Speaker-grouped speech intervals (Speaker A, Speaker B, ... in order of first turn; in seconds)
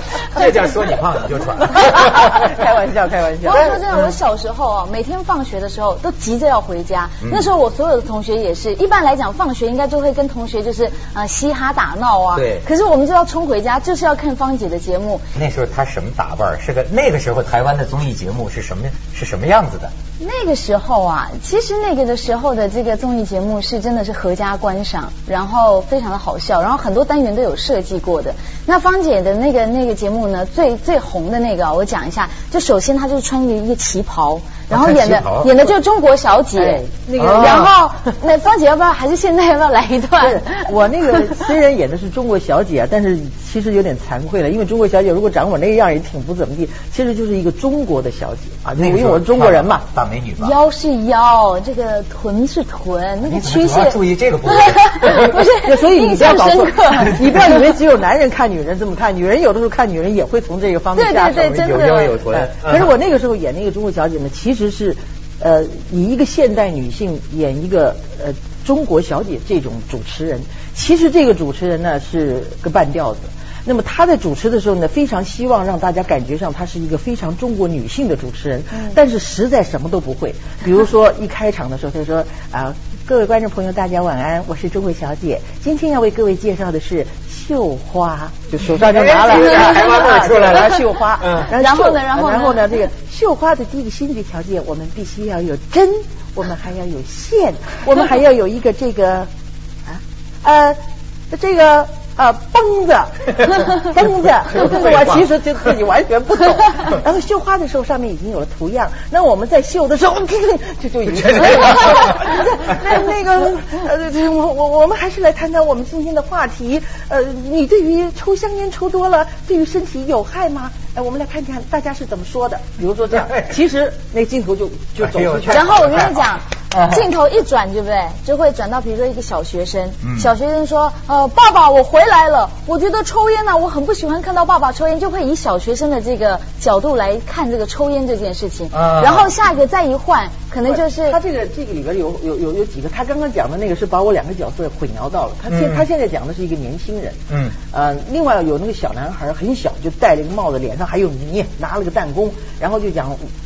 Speaker A: 0.3-2.5, 3.5-4.1, 7.2-7.5, 12.3-12.7, 15.3-19.9, 34.7-35.6, 37.2-37.7, 48.8-50.5, 53.2-55.4, 57.0-57.4, 61.3-62.9, 88.6-91.5, 104.5-105.2, 111.2-112.2, 125.0-127.1, 130.0-130.3, 138.7-139.3, 145.5-145.9, 147.3-147.5
Speaker B: 1.7-3.8, 36.5-38.1, 40.2-49.8, 55.6-99.3, 99.8-100.8, 101.3-125.7, 140.7-153.3
Speaker C: 3.4-15.2, 20.2-40.7, 50.4-57.4, 60.9-62.2, 89.3-90.8, 91.5-92.6, 125.5-141.2